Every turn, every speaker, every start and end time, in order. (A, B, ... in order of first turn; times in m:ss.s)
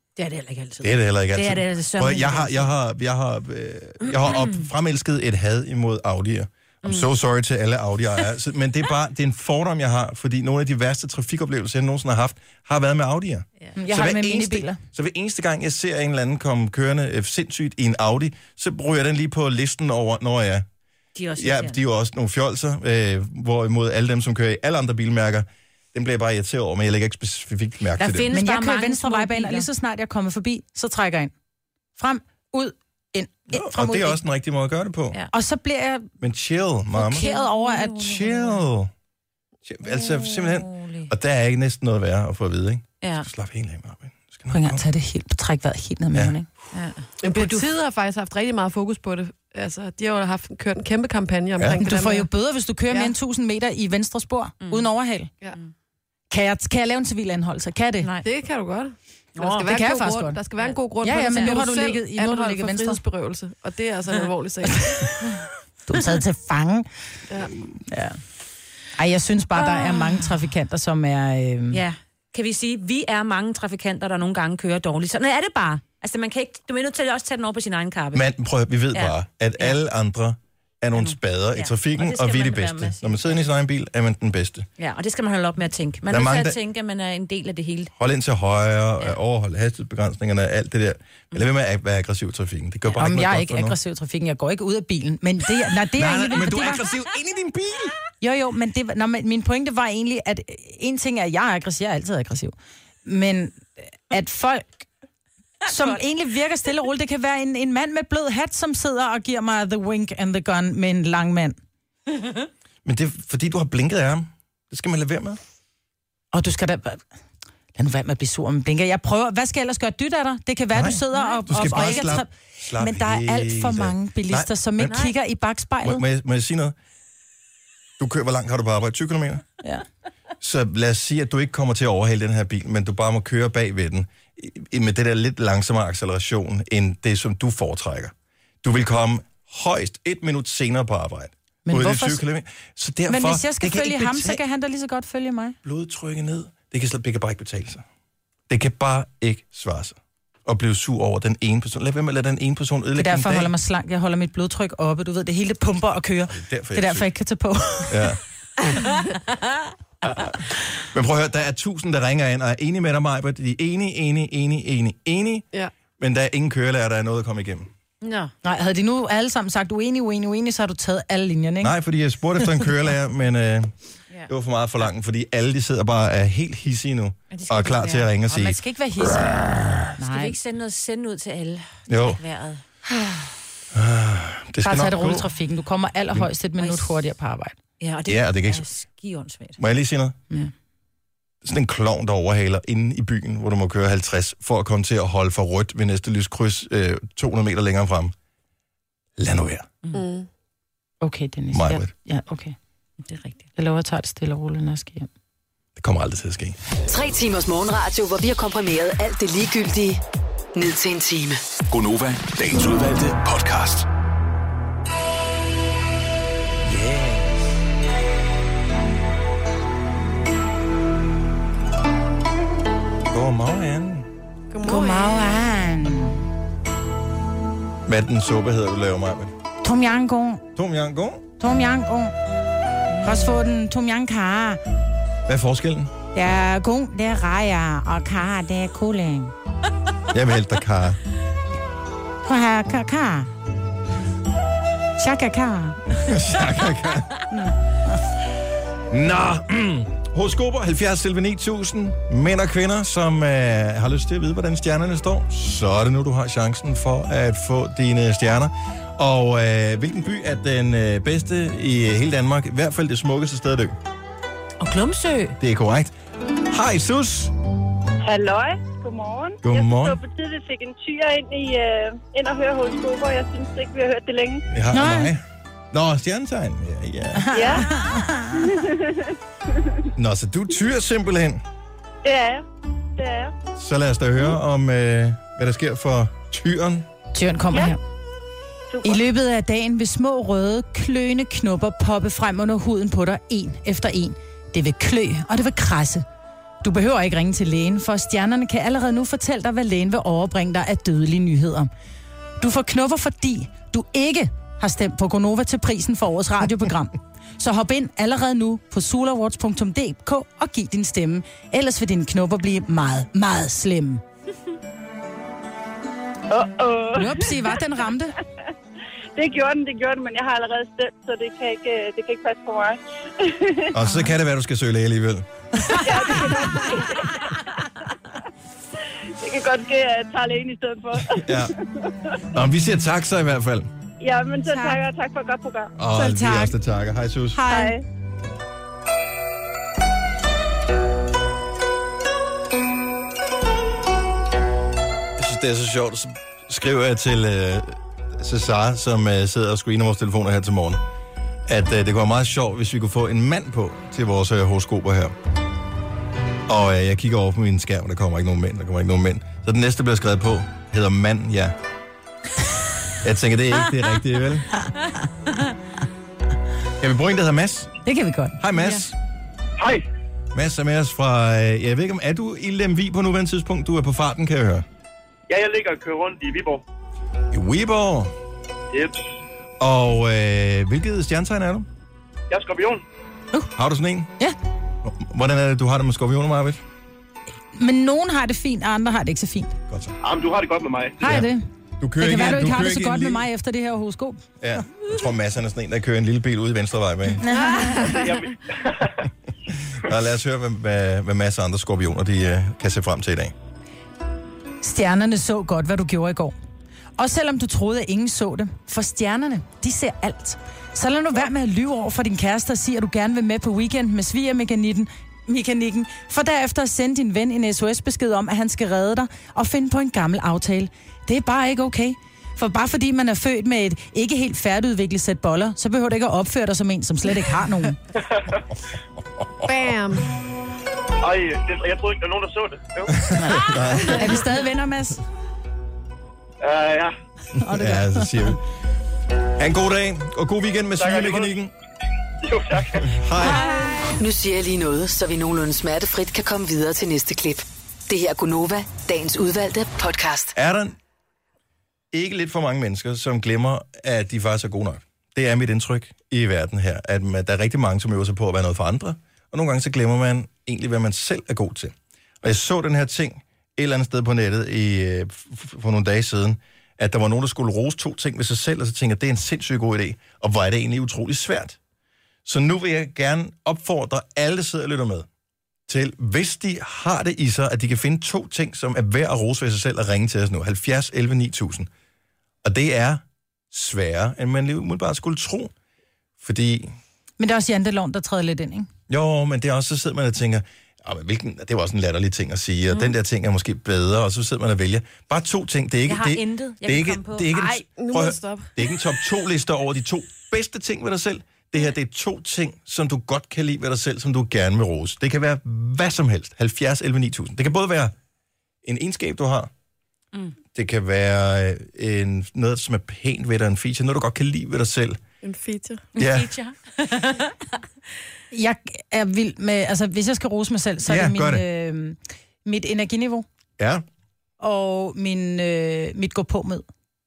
0:00.2-0:02.7 A
0:00.8-0:20.6 B
0:04.0-0:04.6 A
0:13.8-0:14.8 C
0:21.2-0:21.8 A
0:21.4-0:28.3 B
0:28.0-0:29.7 A
0:28.3-0:31.3 C
0:32.0-0:34.2 C
0:33.5-0:35.2 B
0:35.3-0:36.1 C
0:36.2-0:37.3 B
0:37.0-0:38.0 C
0:37.1-0:38.6 A
0:38.0-0:38.9 B
0:39.6-0:44.8 B
0:39.9-0:41.1 A
0:43.0-0:43.3 A
0:44.5-0:46.5 C
0:46.7-0:47.6 A
0:47.2-0:52.3 D
0:51.8-0:55.3 C
0:56.3-0:58.1 C
0:58.0-0:58.3 A
0:58.2-1:05.2 D
0:59.4-0:59.7 A
0:59.6-1:00.4 C
1:01.0-1:03.0 C
1:01.3-1:01.6 A
1:05.9-1:06.9 C
1:07.9-1:08.2 C
1:09.0-1:11.8 C
1:09.6-1:10.2 A
1:11.7-1:18.2 A
1:18.1-1:24.7 B
1:18.9-1:19.8 A
1:21.0-1:23.4 A
1:24.8-1:27.9 A
1:26.1-1:26.6 B
1:28.0-1:33.8 B
1:33.0-1:36.8 C
1:35.9-1:38.0 B
1:38.2-1:42.5 C
1:43.0-1:44.9 C
1:45.7-1:51.6 C
1:52.8-1:55.4 B
1:56.3-1:57.0 C
1:57.8-2:06.0 C
2:00.7-2:05.0 B
2:01.1-2:02.2 A
2:04.8-2:05.1 A
2:05.8-2:06.8 B
2:08.0-2:09.4 B
2:10.4-2:24.4 B
2:21.7-2:22.2 C
2:23.1-2:25.6 C
2:25.6-2:27.8 B
2:28.5-2:33.5 B
2:33.0-2:38.0 C
2:36.3-2:37.1 B
2:37.9-2:38.2 B
2:40.0-2:45.4 B
2:46.0-2:47.7 B
2:48.0-2:48.3 A
2:48.4-2:51.7 C
2:51.6-2:53.7 B
2:54.3-2:58.6 B
2:57.3-2:58.1 A
2:58.3-3:00.4 C
3:00.0-3:02.6 A
3:01.9-3:02.2 B
3:03.7-3:05.3 B
3:04.6-3:07.6 C
3:06.6-3:07.0 A
3:07.8-3:09.6 A
3:08.1-3:08.7 B
3:09.6-3:10.2 B
3:11.4-3:18.1 B
3:19.2-3:19.7 B
3:19.9-3:20.3 D
3:21.0-3:22.6 C
3:21.5-3:21.9 B
3:23.0-3:23.4 A
3:23.6-3:25.1 C
3:25.8-3:26.6 B
3:26.9-3:30.0 E
3:30.6-3:31.4 E
3:31.7-3:33.9 F
3:36.6-3:37.5 B
3:43.1-3:44.1 B
3:44.5-3:45.2 D
3:44.6-3:46.2 C
3:47.9-3:49.3 B
3:49.6-3:50.4 C
3:50.6-3:51.2 B
3:51.4-3:52.1 C
3:53.0-3:54.6 C
3:55.3-3:55.9 B
3:56.1-3:59.3 C
4:00.1-4:01.0 B
4:02.2-4:03.3 C
4:05.0-4:06.1 C
4:06.0-4:07.1 B
4:08.9-4:23.8 B
4:24.6-4:25.4 A
4:25.4-4:25.9 B
4:26.5-4:27.3 B
4:28.0-4:34.5 G
4:29.4-4:30.0 B
4:34.5-4:37.3 B
4:34.7-4:35.1 C
4:37.2-4:38.5 C
4:37.3-4:37.7 G
4:38.4-4:39.1 G
4:40.0-4:41.4 B
4:42.0-4:42.4 G
4:43.0-4:43.4 G
4:43.6-4:46.9 B
4:47.1-4:47.8 C
4:48.7-4:49.0 G
4:48.8-4:56.0 C
4:56.6-5:01.7 C
5:02.4-5:14.0 C
5:16.3-5:17.4 G
5:17.0-5:18.2 C
5:19.2-5:23.8 G
5:23.7-5:25.3 B
5:25.8-5:27.4 G
5:29.2-5:32.2 G
5:31.1-5:31.5 B
5:32.3-5:33.7 B
5:34.0-5:35.7 G
5:34.5-5:34.8 C
5:35.8-5:37.4 B
5:35.9-5:36.6 C
5:37.3-5:37.8 C
5:37.5-5:37.8 G
5:45.2-5:50.8 B
5:51.5-5:55.1 B
5:56.5-6:01.6 B
6:03.0-6:04.5 B
6:06.8-6:07.7 B
6:07.8-6:08.4 C
6:08.4-6:09.0 B
6:09.6-6:09.9 H
6:10.3-6:14.7 B
6:15.3-6:16.6 H
6:17.3-6:18.1 B
6:18.7-6:19.0 H
6:19.6-6:21.7 B
6:22.3-6:22.8 H
6:23.6-6:24.1 B
6:24.8-6:26.6 B
6:27.6-6:29.6 C
6:29.7-6:30.0 B
6:30.0-6:31.0 H
6:31.0-6:31.5 C
6:31.0-6:31.3 B
6:31.8-6:33.2 B
6:32.0-6:34.2 C
6:34.4-6:37.2 B
6:37.2-6:38.0 C
6:37.4-6:38.1 D
6:37.9-6:39.0 H
6:39.8-6:43.3 B
6:44.6-6:46.4 C
6:47.0-7:07.8 C
7:09.4-7:10.1 D
7:11.0-7:13.0 H
7:13.0-7:14.2 B
7:13.2-7:15.0 C
7:16.4-7:16.9 H
7:17.4-7:18.1 C
7:17.4-7:18.4 B
7:19.4-7:21.5 B
7:20.8-7:21.3 H
7:22.2-7:23.0 H
7:22.9-7:23.4 B
7:24.0-7:30.3 E
7:30.4-7:30.8 B
7:31.9-7:51.6 B
7:52.2-7:55.1 B
7:55.7-8:01.7 B
8:02.4-8:05.5 B
8:06.2-8:06.8 B
8:07.2-8:08.7 C
8:08.9-8:27.9 B
8:15.9-8:17.4 A
8:17.3-8:18.5 D
8:28.6-8:29.5 B
8:30.5-8:35.0 B
8:35.2-8:35.8 D
8:36.0-8:37.4 A
8:36.0-8:36.3 B
8:38.3-8:43.3 C
8:40.9-8:41.4 B
8:43.6-8:43.8 B
8:44.4-8:46.7 C